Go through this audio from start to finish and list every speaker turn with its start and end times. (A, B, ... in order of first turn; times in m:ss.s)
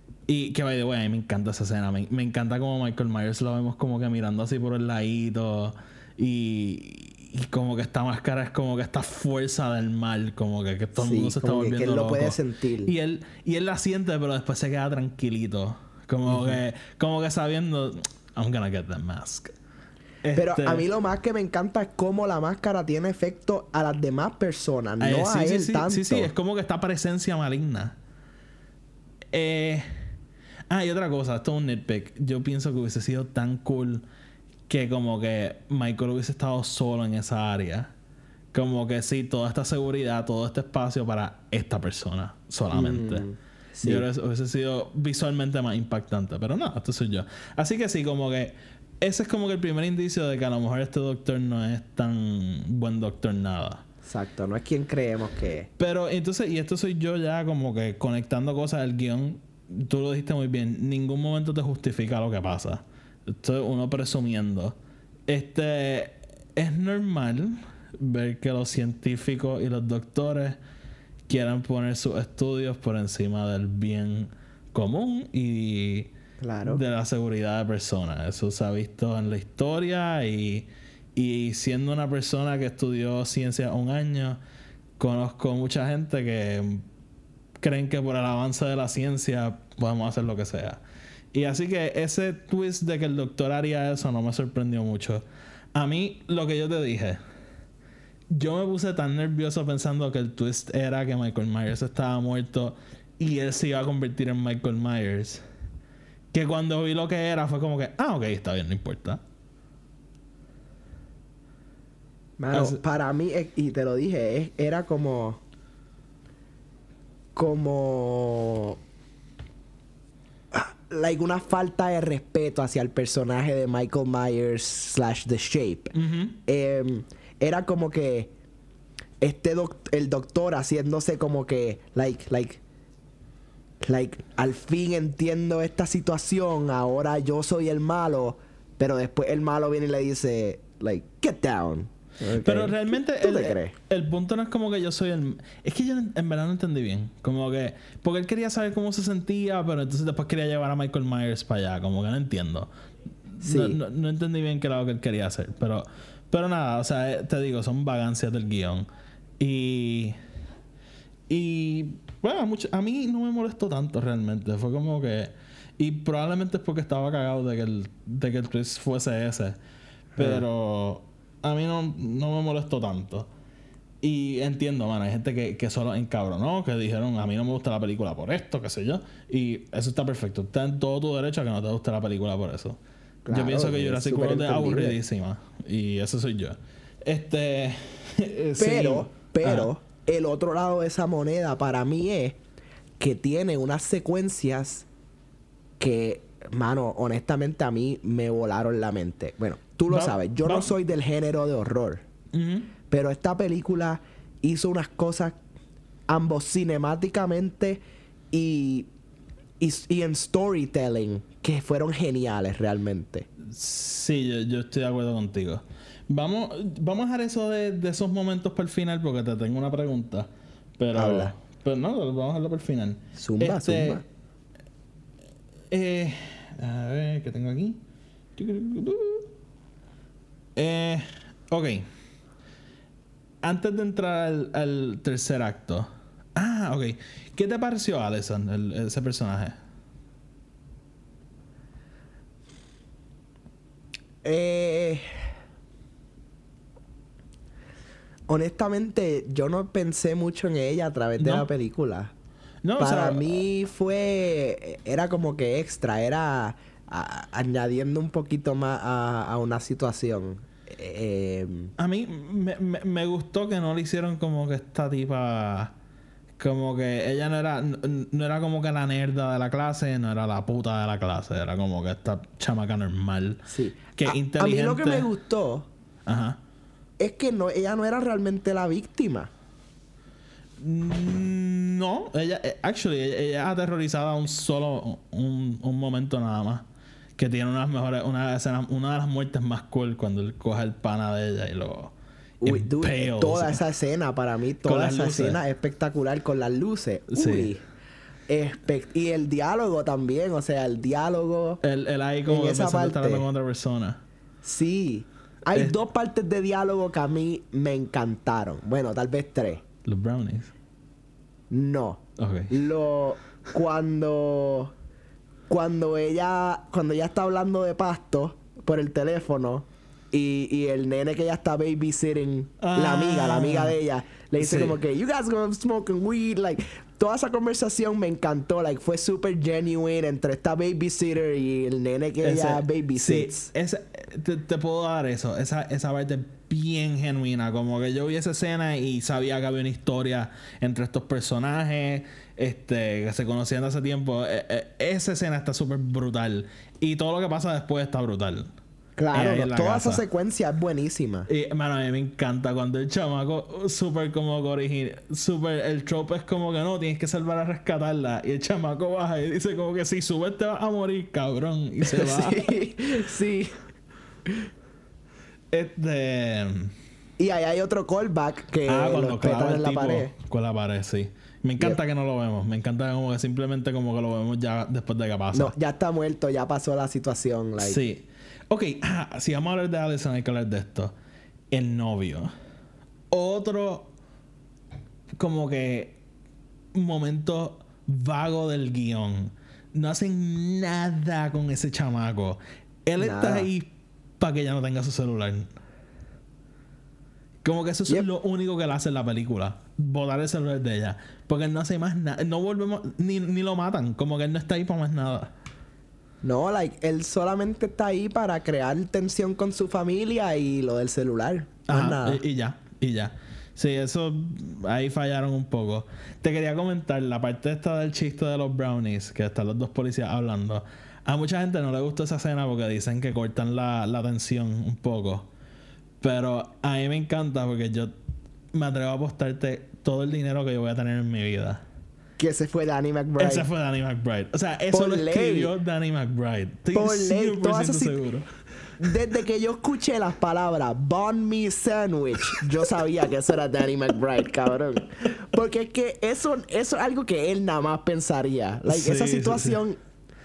0:00.3-0:19.5 A
0:11.0-0:12.9 B
0:16.3-0:16.6 B
0:20.2-0:20.8 A
0:20.4-0:26.3 B
0:25.0-0:28.0 A
0:29.3-0:29.9 A
0:30.7-0:34.0 A
0:34.7-0:37.9 A
0:38.5-0:43.2 A
0:42.7-0:44.0 B
0:43.8-0:53.8 A
0:54.0-0:55.7 B
0:55.8-1:04.8 A
1:05.3-1:10.6 A
1:11.3-1:16.1 A
1:16.4-1:16.8 B
1:16.6-1:24.4 A
1:25.0-1:26.8 A
1:27.6-1:30.8 A
1:31.3-1:35.2 A
1:35.8-1:37.2 A
1:38.3-1:45.4 A
1:46.3-1:49.2 A
1:52.4-1:55.4 B
1:52.5-1:52.8 A
1:57.4-1:58.8 B
2:00.5-2:05.9 B
2:05.9-2:06.4 A
2:06.5-2:08.3 B
2:09.2-2:12.6 B
2:13.8-2:23.7 B
2:22.4-2:32.7 A
2:33.4-2:38.9 A
2:33.4-2:33.8 B
2:39.4-2:40.2 A
2:41.3-2:49.6 A
2:50.2-2:50.4 B
2:50.2-2:53.3 A
2:54.0-3:02.8 A
3:03.3-3:05.0 B
3:03.3-3:09.7 A
3:08.6-3:12.4 B
3:13.0-3:14.9 B
3:15.8-3:22.0 B
3:19.9-3:20.7 A
3:22.3-3:22.7 A
3:22.9-3:25.4 B
3:26.1-3:28.9 B
3:29.6-3:33.3 B
3:33.4-3:40.3 A
3:40.8-3:44.0 A
3:40.9-3:41.3 B
3:43.2-3:44.0 B
3:45.7-3:47.8 A
3:48.4-3:49.3 A
3:50.6-3:51.9 A
3:53.4-3:59.6 A
4:04.2-4:05.0 B
4:08.3-4:12.1 B
4:11.2-4:11.5 A
4:12.6-4:13.4 A
4:12.8-4:21.7 B
4:21.8-4:25.7 A
4:26.4-4:35.1 A
4:33.5-4:35.7 B
4:36.1-4:36.4 A
4:37.0-4:39.3 B
4:40.6-4:53.6 A
4:52.4-4:57.6 B
4:54.6-4:55.4 A
4:57.1-4:57.5 A
4:58.3-5:01.6 B
5:01.6-5:04.0 A
5:02.3-5:03.3 B
5:04.4-5:09.6 B
5:09.8-5:10.5 A
5:11.5-5:14.7 B
5:12.2-5:12.6 A
5:15.5-5:33.5 B
5:22.6-5:23.8 A
5:24.4-5:24.8 A
5:32.2-5:48.5 A
5:49.0-5:51.3 B
5:49.1-5:50.0 A
5:51.3-6:02.5 A
6:01.8-6:03.5 B
6:05.5-6:06.7 A
6:07.2-6:10.1 B
6:08.7-6:15.5 A
6:15.3-6:17.8 B
6:17.6-6:20.9 A
6:21.5-6:22.3 A
6:23.1-6:23.9 A
6:25.2-6:26.0 A
6:26.7-6:33.7 A
6:33.0-6:33.5 B
6:34.2-6:35.5 A
6:37.4-6:45.3 A
6:46.2-6:52.2 B
6:51.7-7:05.3 A
7:06.0-7:07.9 A
7:08.5-7:11.6 A
7:12.2-7:13.5 B
7:13.2-7:18.3 A
7:14.7-7:15.5 B
7:16.7-7:18.0 B
7:18.8-7:29.8 B
7:28.7-7:29.6 A